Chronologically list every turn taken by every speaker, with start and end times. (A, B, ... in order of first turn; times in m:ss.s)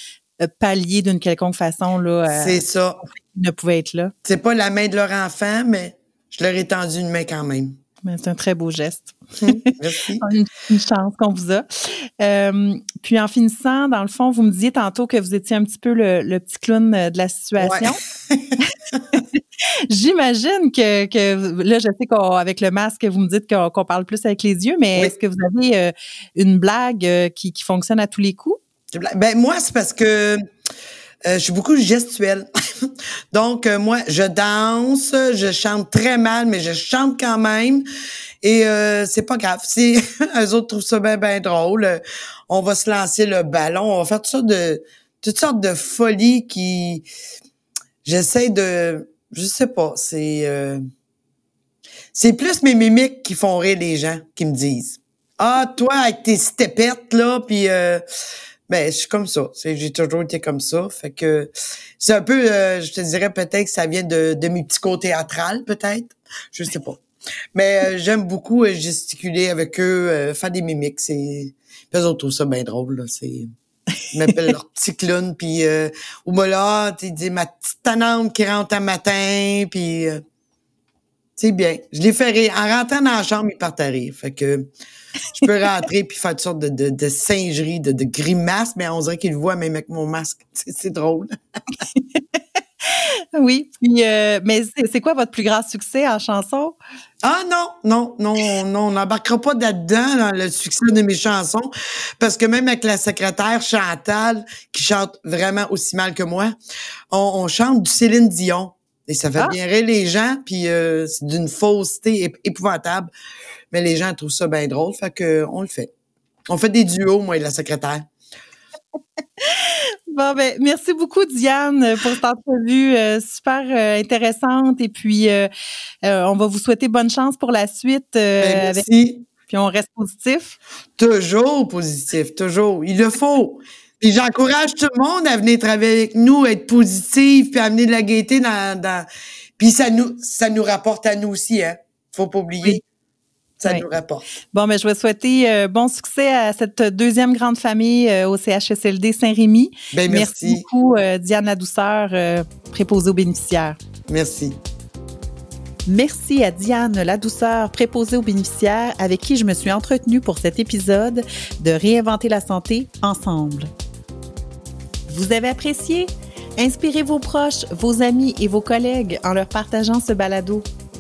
0:00.4-0:04.1 A
0:02.3-0:03.0 B
0:04.2-0:07.8 B
0:08.0-0:18.0 A
0:09.4-0:10.3 B
0:17.6-0:19.2 B
0:18.6-0:28.6 A
0:28.9-0:30.4 B
0:31.2-0:37.8 B
0:38.4-0:47.0 B
0:48.0-0:50.8 B
0:52.1-0:58.0 B
0:58.7-1:07.0 B
1:07.5-1:13.5 B
1:14.1-1:20.2 B
1:21.4-1:24.7 B
1:25.3-1:31.3 B
1:32.8-1:36.8 A
1:37.2-1:46.5 B
1:47.1-1:53.1 B
1:53.7-1:55.9 B
1:56.5-1:58.1 B
1:59.4-2:05.5 A
2:06.0-2:08.9 A
2:08.4-2:09.3 B
2:09.5-2:10.6 A
2:11.0-2:19.1 B
2:19.6-2:22.8 B
2:23.6-2:24.2 B
2:24.5-2:33.8 A
2:29.9-2:30.7 B
2:34.1-2:34.6 B
2:35.9-2:43.7 A
2:45.1-2:50.7 A